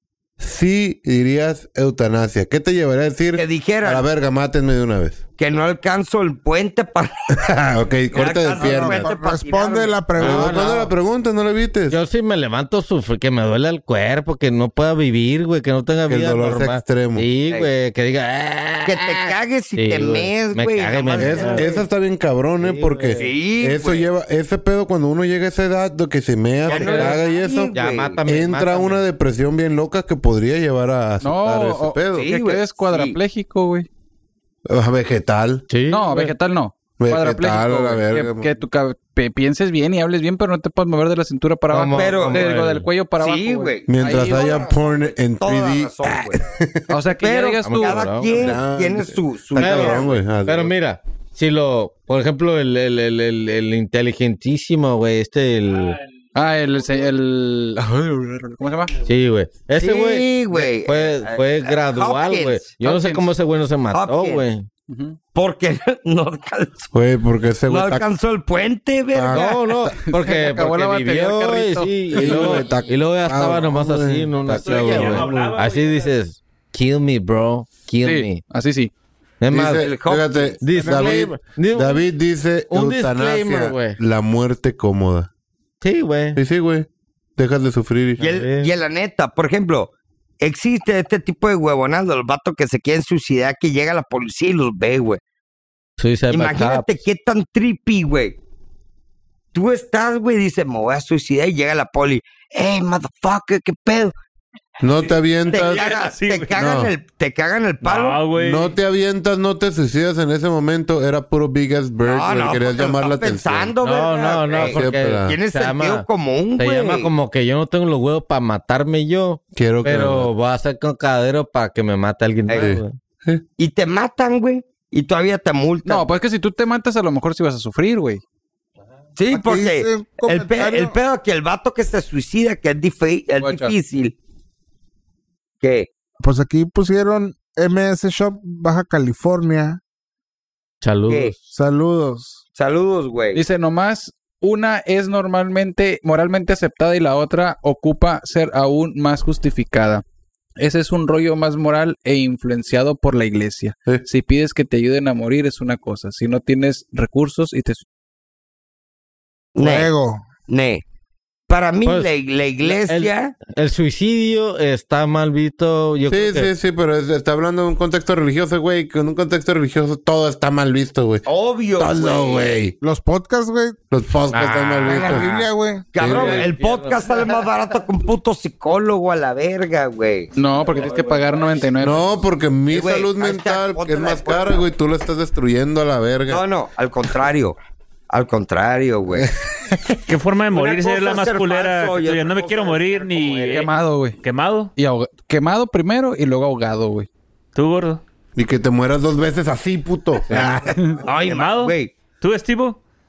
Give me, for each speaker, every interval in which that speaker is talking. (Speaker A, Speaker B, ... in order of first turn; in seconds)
Speaker A: 0.4-5.2, 7.4-9.1, 10.2-12.0, 16.1-17.3, 21.2-27.7, 28.2-32.3, 34.6-35.6, 37.0-38.5, 43.9-46.9, 48.3-50.7, 66.9-68.0, 69.1-70.0, 72.1-75.6, 79.5-85.3, 86.3-88.3, 104.8-105.9, 106.5-106.9, 108.3-113.7, 114.5-115.4, 119.5-120.3, 122.5-123.4, 166.1-171.2, 171.8-172.7, 173.9-175.4, 176.0-176.5, 181.8-186.4, 189.1-189.8, 198.3-201.0
Speaker B: 3.4-4.1, 5.4-7.3, 8.1-10.0, 18.9-21.8, 23.1-24.1, 26.7-28.2, 32.1-33.2, 41.9-42.6, 43.1-46.4, 47.1-50.1, 59.8-62.7, 63.9-64.4, 65.3-66.9, 67.7-69.6, 79.6-80.6, 88.2-95.2, 96.3-98.3, 99.5-104.1, 105.5-108.2, 112.0-117.1, 123.6-126.1, 129.2-134.1, 135.6-135.9, 141.1-141.3, 142.5-143.4, 159.6-159.9, 160.5-160.8, 161.5-163.3, 171.2-172.5, 175.9-180.3, 182.7-184.6, 186.3-187.6, 188.1-189.3, 190.5-193.7, 200.3-201.9
Speaker C: 8.6-10.9, 80.7-81.2, 129.3-130.9, 136.2-139.8, 141.5-142.4, 159.6-160.3, 172.8-173.8, 174.9-175.9
Speaker D: 10.2-10.9, 11.9-21.7, 22.6-23.3, 26.7-27.2, 27.7-29.0, 35.7-36.3, 41.7-42.9, 47.6-48.6, 49.5-56.0, 59.0-64.7, 69.3-78.4, 79.4-79.9, 80.6-82.1, 82.7-84.0, 85.8-86.4, 88.2-88.7, 96.0-97.0, 113.8-116.0, 116.6-123.0, 140.8-141.3, 161.8-166.5, 174.3-175.3, 176.0-177.4
Speaker E: 31.2-33.9, 35.9-44.6, 46.9-48.1, 56.3-58.9, 62.8-63.3, 64.9-65.2, 70.0-72.6, 78.0-78.9, 125.8-128.2, 133.4-133.7, 143.3-150.0, 150.6-157.8, 180.3-182.1, 193.5-194.2, 194.8-197.1
Speaker F: 74.6-76.1, 105.5-106.6, 107.8-108.7, 190.1-194.7, 197.5-198.0, 201.2-202.8